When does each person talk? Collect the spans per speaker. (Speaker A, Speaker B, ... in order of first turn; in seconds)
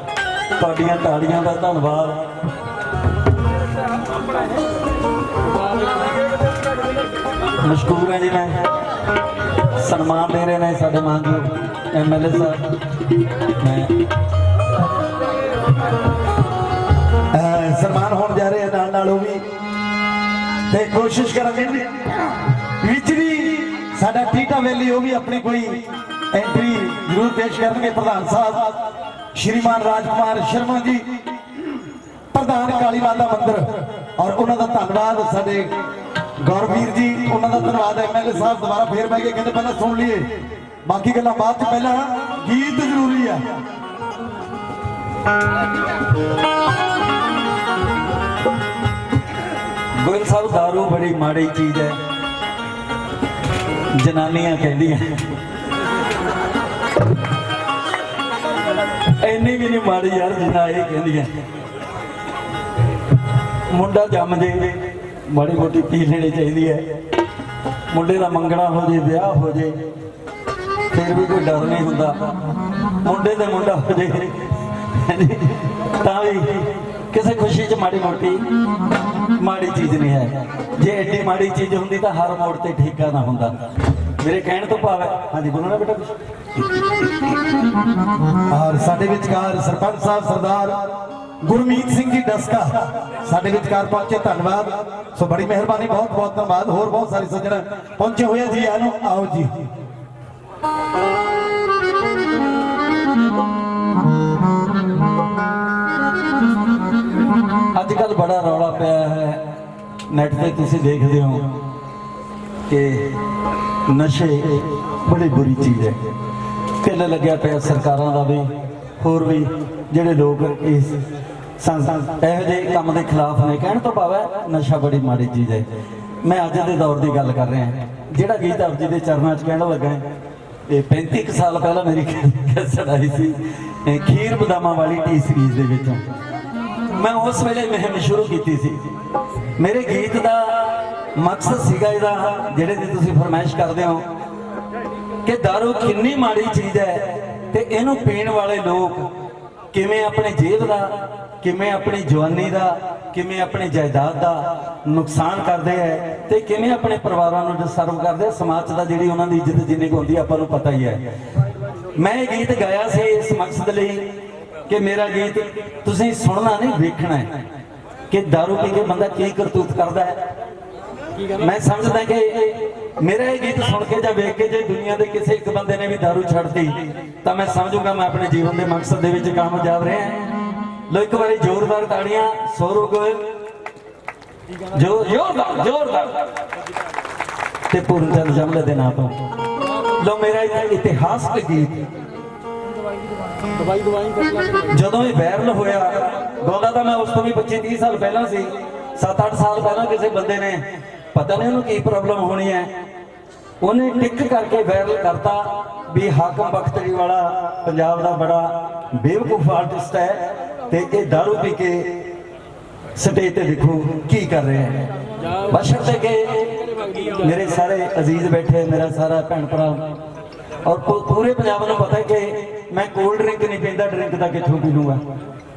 Speaker A: 0.6-2.2, 7.6-8.6, 9.7-12.6, 13.6-13.9, 17.7-19.3, 22.9-24.1, 24.7-25.5, 28.0-28.5, 29.4-30.7, 32.4-33.6, 34.2-35.6, 36.5-38.6, 50.0-52.0, 53.9-55.3, 59.2-61.4, 63.7-66.8, 67.9-69.8, 70.9-72.2, 73.0-78.5, 79.3-83.5, 84.2-86.2, 88.6-89.0, 107.7-109.5, 110.1-111.6, 112.7-113.2, 113.9-116.0, 116.8-121.0, 121.6-125.7, 126.2-130.1, 130.7-136.0, 136.9-138.8, 139.6-144.1, 145.2-149.1, 149.7-161.0, 161.9-164.2, 164.7-167.4, 168.1-170.2, 171.3-180.2, 180.9-183.3, 184.7-186.3, 187.7-189.2, 190.0-191.8, 194.6-202.7, 203.6-211.9, 212.9-214.8, 215.4-219.9, 220.6-225.0
Speaker B: 17.4-19.4, 20.7-22.1, 22.8-25.8, 26.3-28.7, 29.4-31.0, 32.3-33.6, 34.2-35.7, 36.5-40.2, 40.9-43.4, 88.5-90.8, 91.4-99.5